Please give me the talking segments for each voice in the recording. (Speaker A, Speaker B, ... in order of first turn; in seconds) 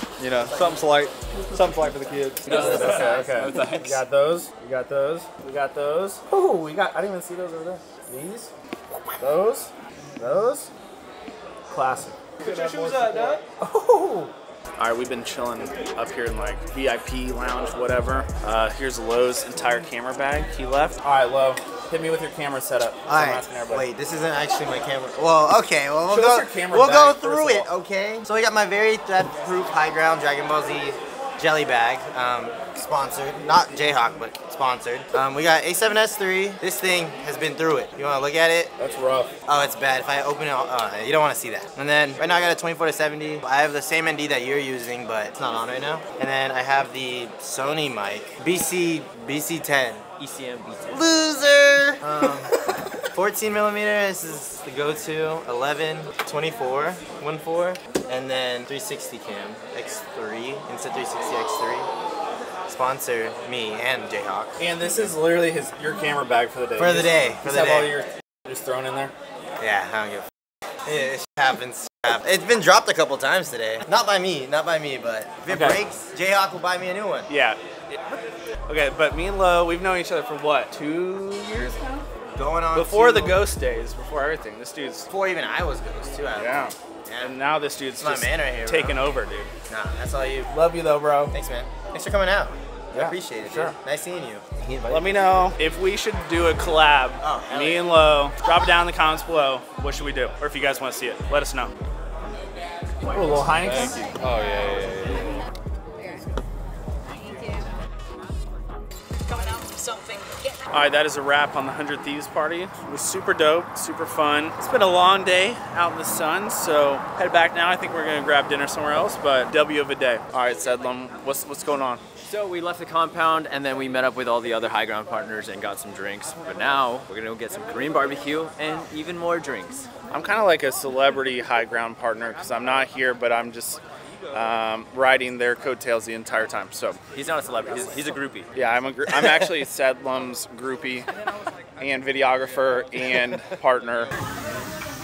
Speaker A: 0.2-4.0, 12.4-13.4, 103.7-105.4
Speaker B: 2.5-8.5, 9.2-10.7, 11.7-23.9, 26.1-27.7, 38.8-39.3, 64.6-69.1, 75.5-75.8, 77.3-82.0, 82.7-85.1, 86.3-89.5, 90.5-91.3, 92.9-93.8, 94.9-101.7, 103.0-104.2, 109.5-122.0, 130.1-137.0, 138.5-141.1, 141.8-144.1
Speaker C: 2.5-3.3, 50.2-51.1, 122.2-129.9, 137.1-138.5
Speaker D: 23.1-38.7, 39.5-50.1, 50.9-52.5, 53.1-61.9, 62.7-64.6, 66.8-67.9, 69.6-70.3, 70.9-77.3, 82.3-83.4, 85.1-87.4, 88.0-89.0, 89.7-90.5, 91.3-95.4, 97.2-97.9